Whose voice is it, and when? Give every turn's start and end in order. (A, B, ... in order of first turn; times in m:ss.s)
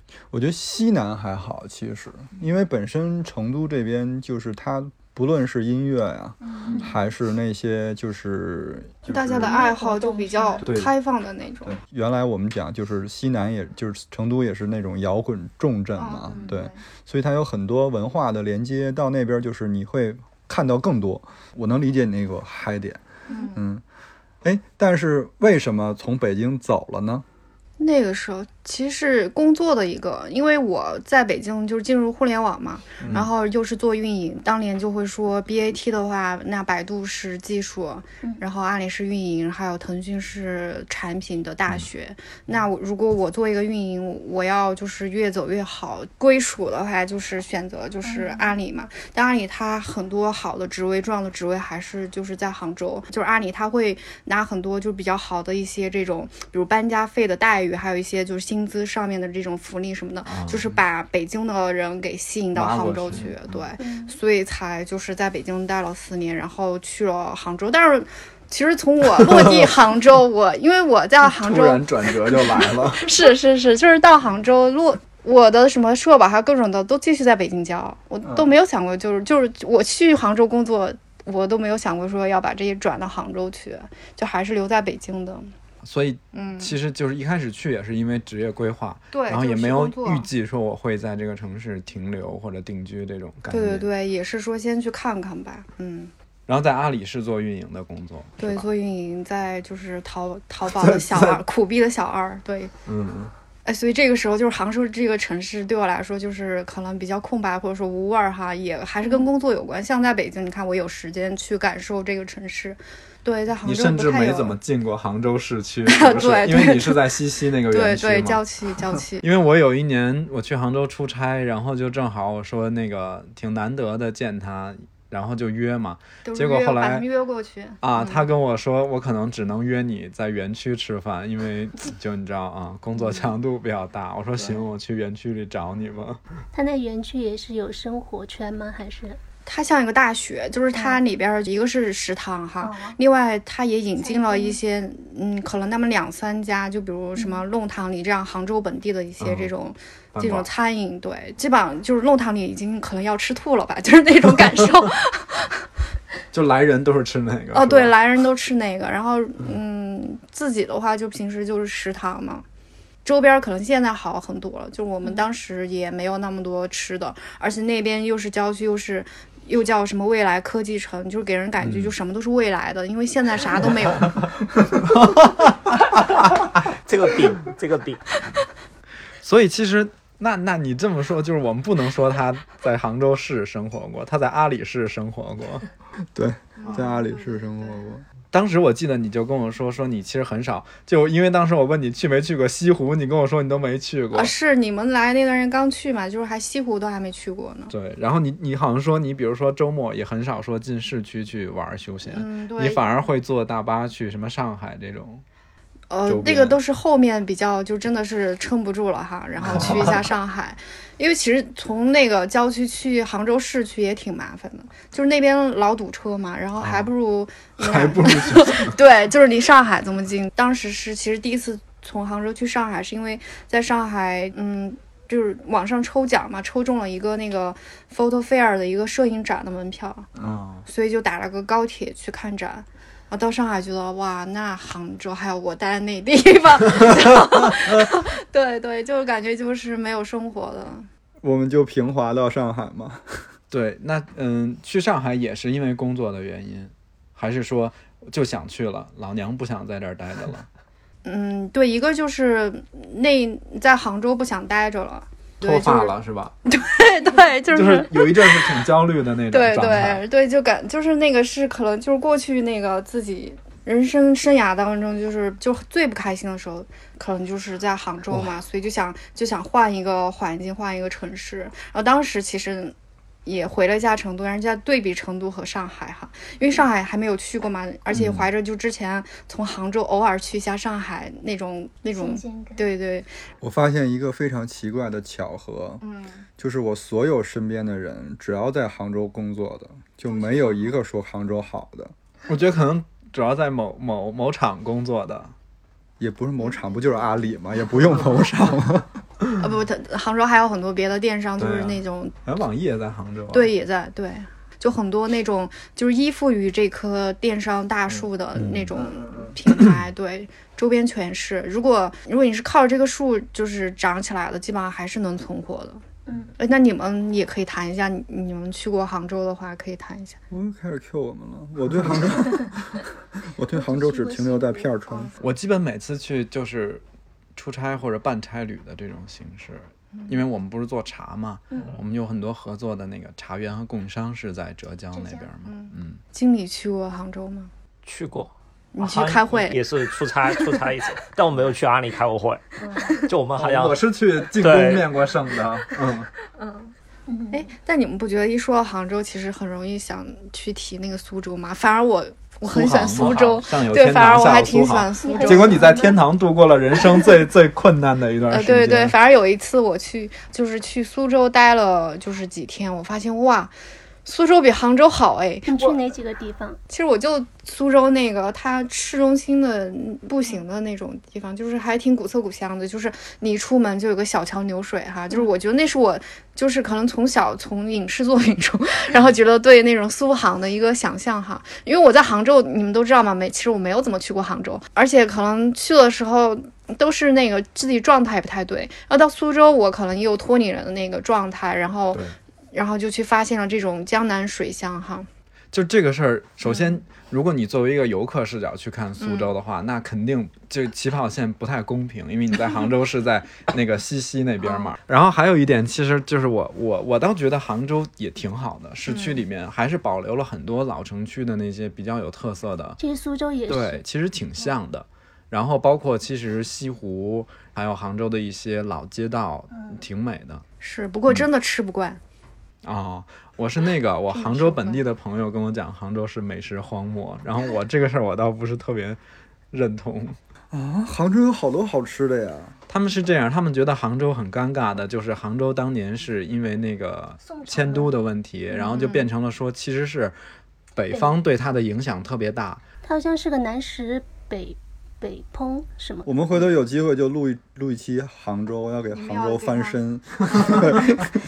0:00.3-0:09.6 A
0:06.6-0:06.8 B
0:09.1-0:11.8 B
0:09.4-0:10.6 C
0:10.6-0:10.9 D
0:11.7-0:23.0 A
0:16.0-0:16.8 B
0:23.3-0:23.6 B
0:23.5-0:23.8 A
0:24.4-0:27.2 A
0:27.8-1:25.5 B
0:33.0-0:33.2 A
0:48.0-0:48.5 C
1:00.3-1:00.7 D
1:02.6-1:03.6 D
1:03.8-1:04.2 C
1:09.2-1:09.7 D
1:11.2-1:13.1 D
1:25.8-1:33.9 D
1:26.3-1:26.8 B
1:29.1-1:30.3 B
1:33.5-1:36.1 B
1:36.5-1:38.7 D
1:38.4-1:42.7 B
1:40.8-1:41.4 D
1:42.9-1:43.3 D
1:43.7-1:54.6 B
1:53.6-1:58.4 D
1:55.9-1:57.1 B
1:57.7-1:59.3 B
1:59.2-2:07.1 D
2:06.2-2:08.3 B
2:07.8-2:16.2 D
2:13.0-2:13.3 B
2:16.5-2:19.2 C
2:19.5-2:35.6 B
2:20.7-2:21.0 C
2:22.6-2:23.0 C
2:24.0-2:24.6 C
2:27.2-2:27.4 C
2:29.2-2:29.5 D
2:30.1-2:30.5 D
2:36.3-2:37.9 D
2:37.5-2:42.4 B
2:43.0-2:54.3 B
2:51.6-2:51.9 D
2:54.8-2:55.8 D
2:56.7-2:58.2 E
2:59.2-3:05.6 D
3:06.2-3:08.0 A
3:06.6-3:07.8 B
3:08.3-3:14.3 D
3:14.1-3:17.7 B
3:17.7-3:25.2 D
3:22.1-3:22.8 B
3:25.9-3:50.1 B
3:26.1-3:26.6 D
3:29.4-3:30.0 D
3:36.6-3:36.9 D
3:37.6-3:38.8 D
3:50.2-3:50.6 D
3:50.7-4:00.9 B
4:01.2-4:03.0 A
4:03.5-4:10.5 D
4:11.0-4:15.9 B
4:15.4-4:16.4 D
4:16.5-4:18.6 B
4:17.5-4:20.0 D
4:19.3-4:32.8 B
4:33.3-4:43.1 B
4:37.9-4:38.3 D
4:41.9-4:42.7 C
4:43.4-4:45.8 A
4:45.8-4:46.2 B
4:46.4-4:51.9 A
4:50.1-4:50.7 B
4:52.3-4:55.3 D
4:56.0-4:59.0 A
4:59.4-5:02.1 B
5:01.4-5:03.5 D
5:03.3-5:15.8 B
5:08.4-5:08.7 D
5:16.1-5:16.3 C
5:16.4-5:20.2 B
5:20.3-5:25.1 A
5:23.5-5:24.7 C
5:25.2-5:26.8 D
5:27.4-5:36.0 D
5:29.9-5:30.2 B
5:34.9-5:35.3 C
5:35.4-5:37.5 B
5:37.8-5:43.8 E
5:38.7-5:39.6 B
5:43.4-5:46.1 D
5:44.3-5:44.9 E
5:46.4-5:46.7 B
5:47.1-5:47.5 C
5:47.3-5:55.9 B
5:52.4-5:59.0 D
5:55.0-5:56.0 C
5:58.3-6:03.5 B
6:04.0-6:05.9 B
6:05.4-6:06.6 C
6:06.7-6:35.1 B
6:35.5-6:52.8 D
6:36.4-6:36.8 B
6:39.0-6:39.3 B
6:44.4-6:44.7 B
6:48.9-6:49.2 B
6:52.8-6:53.8 C
6:53.5-7:00.4 D
6:59.5-6:59.8 C
7:00.6-7:02.0 B
7:02.6-7:09.0 D
7:04.1-7:04.8 B
7:09.5-7:10.2 D
7:10.5-7:12.5 A
7:12.7-7:20.2 D
7:17.3-7:17.9 C
7:18.5-7:19.1 B
7:20.8-7:22.6 D
7:22.8-7:26.1 C
7:26.1-7:31.1 A
7:28.9-7:30.6 B